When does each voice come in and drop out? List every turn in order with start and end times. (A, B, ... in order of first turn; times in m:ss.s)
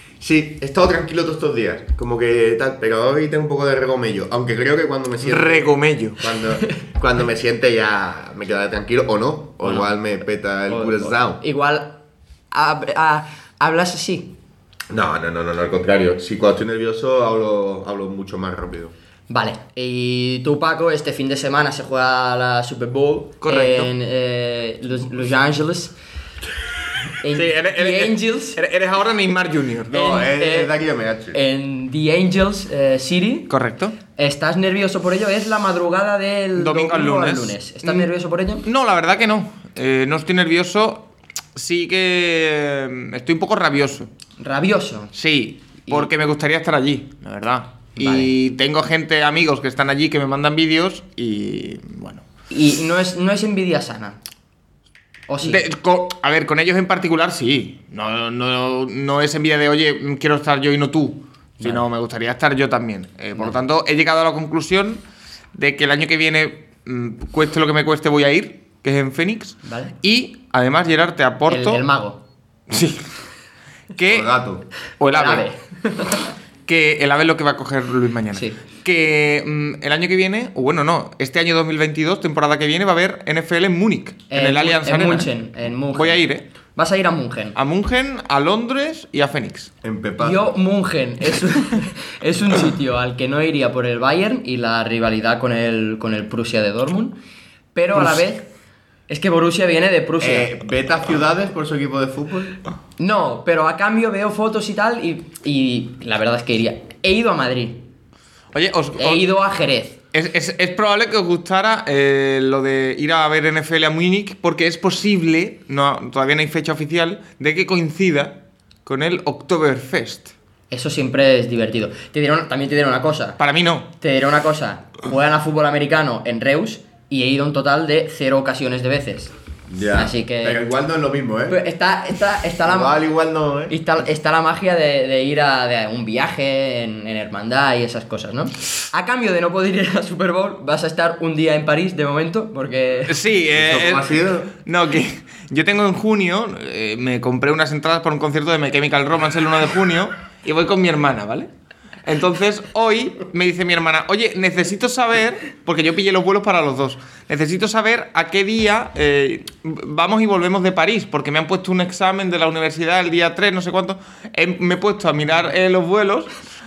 0:00.2-0:11.4 A
0:05.2-0:06.2 B
0:09.6-0:09.9 C
0:10.7-0:12.0 C
0:12.5-0:14.3 C
0:14.9-0:18.9 A
0:19.3-0:25.9 C
0:23.4-0:23.9 B
0:27.2-0:28.6 C
0:27.3-0:30.0 B
0:29.9-0:31.4 A
0:29.9-0:30.7 C
0:31.3-0:33.5 C
0:33.5-0:33.9 B
0:34.2-0:38.6 C
0:36.6-0:38.1 B
0:38.6-0:44.1 B
0:44.4-0:45.1 C
0:45.1-0:52.2 B
0:48.0-0:48.3 C
0:52.5-0:54.2 C
0:55.3-0:55.6 C
0:55.4-1:05.0 B
1:01.6-1:01.8 C
1:05.5-1:11.8 B
1:09.6-1:09.9 C
1:11.5-1:12.2 C
1:12.7-1:13.1 B
1:14.0-1:14.4 B
1:14.1-1:14.6 A
1:15.0-1:15.5 B
1:15.1-1:16.3 C
1:16.7-1:26.4 B
1:18.3-1:18.6 C
1:24.3-1:26.2 C
1:26.7-1:27.6 C
1:27.5-1:29.7 B
1:29.8-1:30.5 A
1:30.2-1:37.2 C
1:37.7-1:38.5 C
1:39.1-1:40.5 C
1:40.2-1:42.6 A
1:43.0-1:47.8 C
1:48.5-1:49.2 B
1:49.0-1:50.0 C
1:50.1-2:00.3 B
2:00.7-2:03.4 C
2:03.4-2:03.9 B
2:04.0-2:09.3 C
2:09.7-2:11.6 A
2:09.9-2:10.6 C
2:11.5-2:13.0 C
2:12.6-2:13.8 A
2:13.7-2:23.1 C
2:23.1-2:31.5 B
2:23.5-2:24.5 A
2:32.0-2:46.3 B